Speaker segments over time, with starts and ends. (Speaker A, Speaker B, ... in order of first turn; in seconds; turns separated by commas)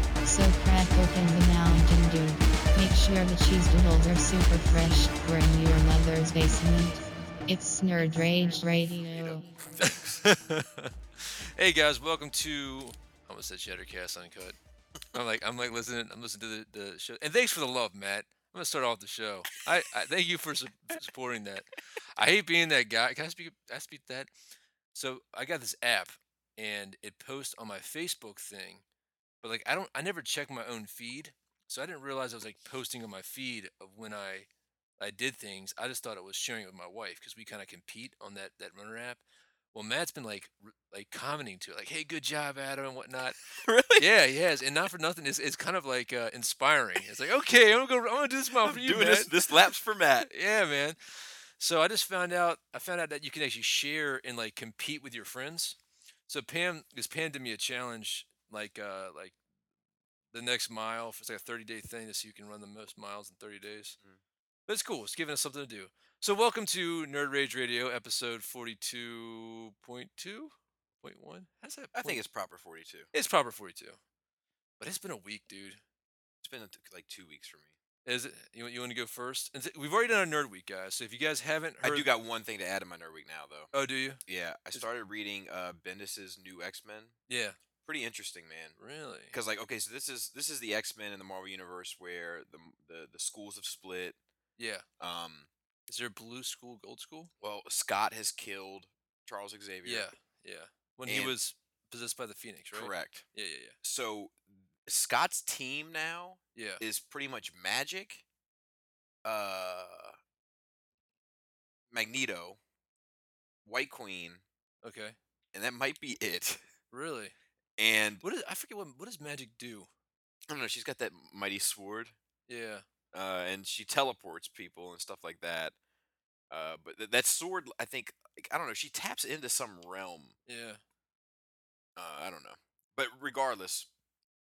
Speaker A: 0.2-9.5, Speaker B: 9.1-10.3, Speaker C: 9.8-14.6, Speaker C: 15.1-24.3, Speaker C: 24.9-28.8, Speaker C: 29.4-34.5, Speaker C: 35.0-39.2, Speaker C: 39.7-43.4, Speaker B: 43.5-44.1, Speaker C: 44.0-49.3, Speaker B: 48.6-50.3, Speaker C: 50.2-55.8, Speaker C: 56.3-59.4, Speaker C: 60.3-64.0, Speaker C: 64.7-72.2, Speaker B: 71.9-73.1, Speaker C: 73.1-74.0, Speaker C: 74.8-75.8, Speaker B: 76.4-77.8, Speaker C: 78.0-82.1, Speaker B: 81.8-83.7, Speaker C: 83.7-84.2, Speaker B: 84.3-87.2, Speaker C: 87.3-87.6, Speaker B: 87.8-88.8, Speaker C: 88.8-89.3, Speaker B: 89.3-94.2, Speaker C: 94.6-94.8, Speaker B: 95.0-95.5, Speaker C: 95.9-97.3, Speaker B: 97.4-100.1, Speaker C: 99.8-103.8, Speaker B: 101.1-101.4, Speaker B: 102.7-103.3, Speaker B: 103.8-108.2, Speaker C: 106.6-106.8, Speaker B: 109.2-110.2, Speaker B: 111.9-112.6, Speaker B: 113.7-114.4, Speaker C: 114.8-115.2, Speaker B: 115.5-116.6, Speaker C: 116.9-117.4, Speaker B: 117.8-118.2, Speaker C: 118.2-119.9, Speaker B: 120.5-122.1, Speaker C: 122.5-122.8, Speaker B: 123.1-125.8, Speaker B: 126.5-130.4, Speaker C: 130.5-130.8, Speaker B: 132.0-133.9